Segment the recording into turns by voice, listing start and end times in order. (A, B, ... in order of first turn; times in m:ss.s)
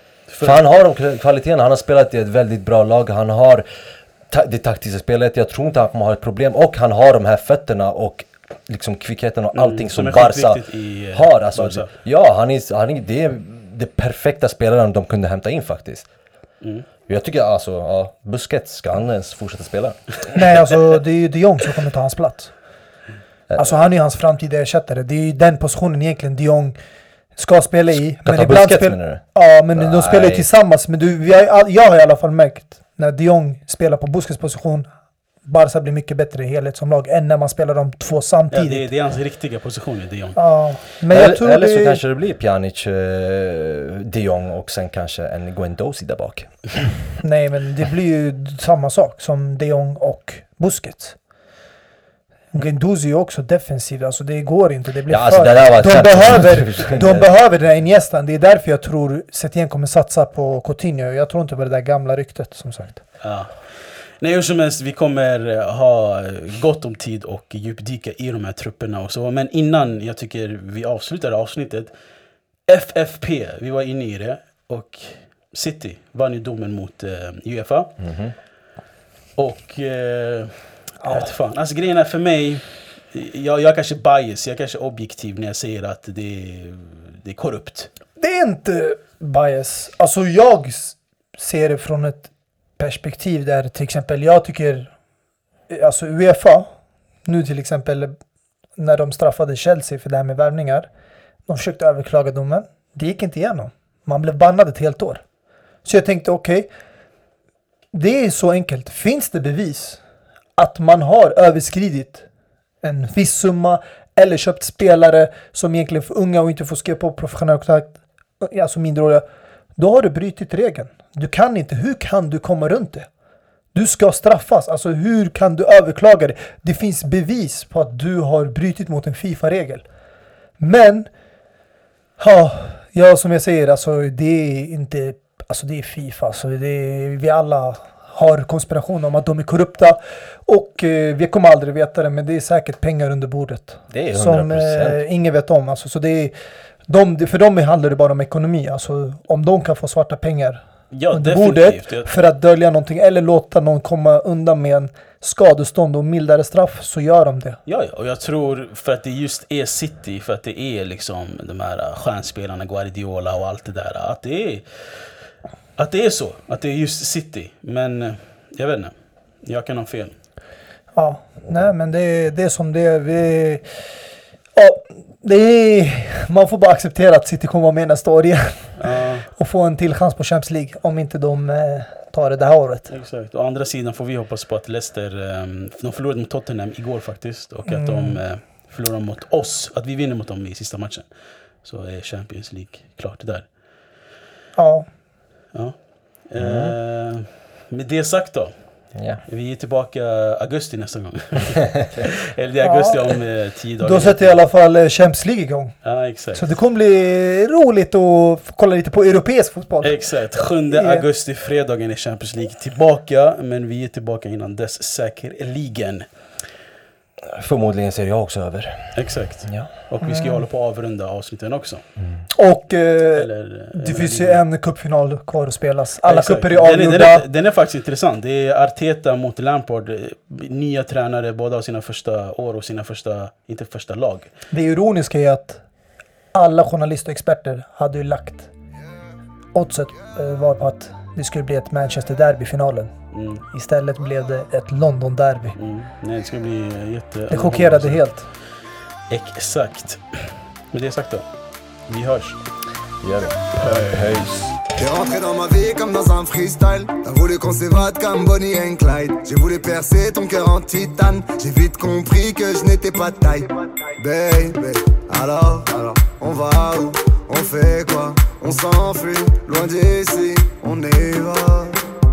0:00.3-0:00.6 A
0:00.4-0:03.6 B
0:04.3-0:16.1 B
0:09.6-0:11.9 A
0:16.6-0:16.9 A
0:17.1-0:20.0 B
0:20.3-0:22.5 C
0:23.6-0:26.8 C
0:27.4-0:34.9 C
0:28.1-0:29.2 B
0:29.8-0:30.4 B
0:35.4-0:38.9 C
0:38.5-0:40.4 A
0:40.4-0:42.0 C
0:41.1-0:47.0 B
0:47.2-0:51.2 C
0:52.5-1:03.0 C
0:55.1-0:57.3 B
1:03.2-1:03.6 A
1:04.2-1:11.9 A
1:12.7-1:17.9 A
1:18.0-1:18.3 B
1:19.4-1:27.9 A
1:21.0-1:21.3 C
1:28.2-1:34.9 C
1:35.7-1:36.7 C
1:37.2-1:38.2 C
1:38.8-1:40.9 C
1:41.5-1:45.2 C
1:45.8-1:46.7 C
1:47.9-1:50.0 C
1:50.6-1:52.3 C
1:52.8-1:59.2 C
1:59.8-2:03.1 C
2:03.7-2:09.8 C
2:10.6-2:11.1 C
2:12.2-2:26.3 C
2:23.9-2:25.0 B
2:26.9-2:37.6 C
2:30.9-2:32.1 A
2:37.7-2:44.7 A
2:45.8-2:50.1 A
2:50.9-2:53.7 C
2:54.6-2:58.8 C
2:58.8-2:59.3 A
2:59.3-3:02.9 C
3:02.9-3:11.1 A
3:07.7-3:08.2 C
3:11.6-3:13.5 A
3:14.6-3:14.9 C
3:15.5-3:18.5 A
3:16.4-3:16.8 B
3:19.0-3:19.2 B
3:19.3-3:24.4 A
3:22.6-3:23.2 C
3:23.8-3:25.8 C
3:25.8-3:26.5 A
3:26.4-3:30.0 C
3:29.8-3:36.1 A
3:30.7-3:31.0 C
3:37.3-3:39.7 B
3:39.0-3:41.8 A
3:40.0-3:40.4 C
3:42.4-3:47.2 C
3:43.2-3:44.4 A
3:46.0-3:54.3 A
3:54.5-3:55.6 C
3:56.3-3:58.5 C
3:59.5-4:02.9 C
4:03.1-4:03.4 A
4:03.5-4:05.6 C
4:05.6-4:08.1 A
4:07.3-4:08.3 C
4:09.1-4:11.3 A
4:11.9-4:12.4 A
4:13.0-4:14.5 B
4:13.6-4:14.2 A
4:14.8-4:31.8 D